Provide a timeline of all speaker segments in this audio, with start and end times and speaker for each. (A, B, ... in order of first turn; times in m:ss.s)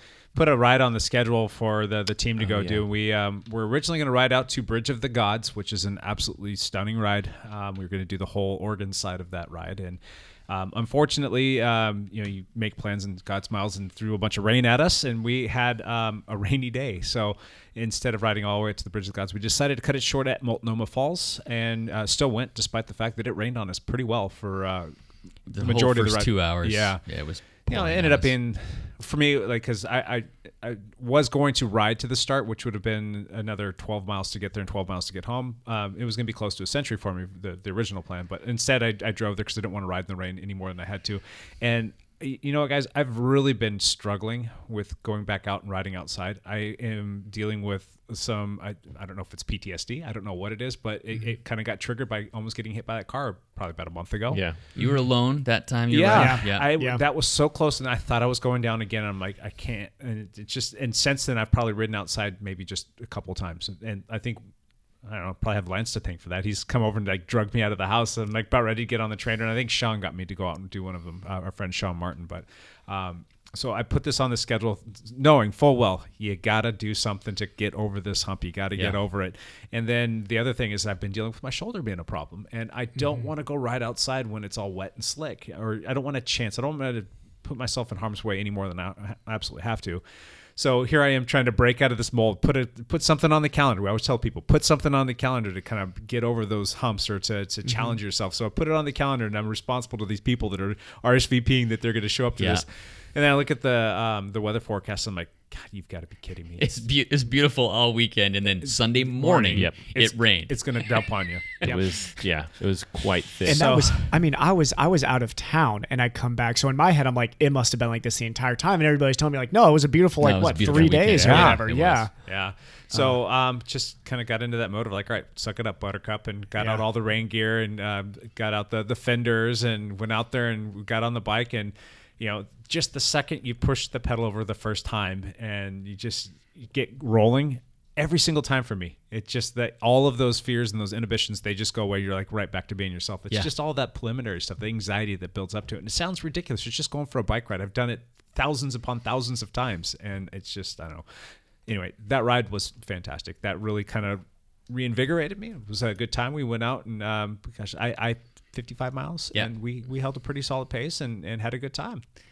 0:00.3-0:24.9 A
0:02.4-0:02.8 B
0:25.5-0:28.3 C
0:25.6-0:27.0 A
0:27.7-0:54.4 A
0:54.3-0:54.6 B
0:54.8-0:56.7 C
0:55.9-1:04.4 A
0:56.1-0:57.0 D
1:05.0-1:30.0 A
1:30.6-1:46.7 A
1:37.7-1:38.0 D
1:42.4-1:42.6 C
1:46.6-1:50.6 C
1:48.8-1:51.6 A
1:51.6-1:53.7 B
1:53.5-1:54.1 A
1:53.5-2:02.1 D
2:00.2-2:02.0 C
2:00.6-2:02.0 B
2:01.2-2:01.6 A
2:02.3-2:31.0 A
2:06.6-2:06.8 D
2:31.7-2:42.0 A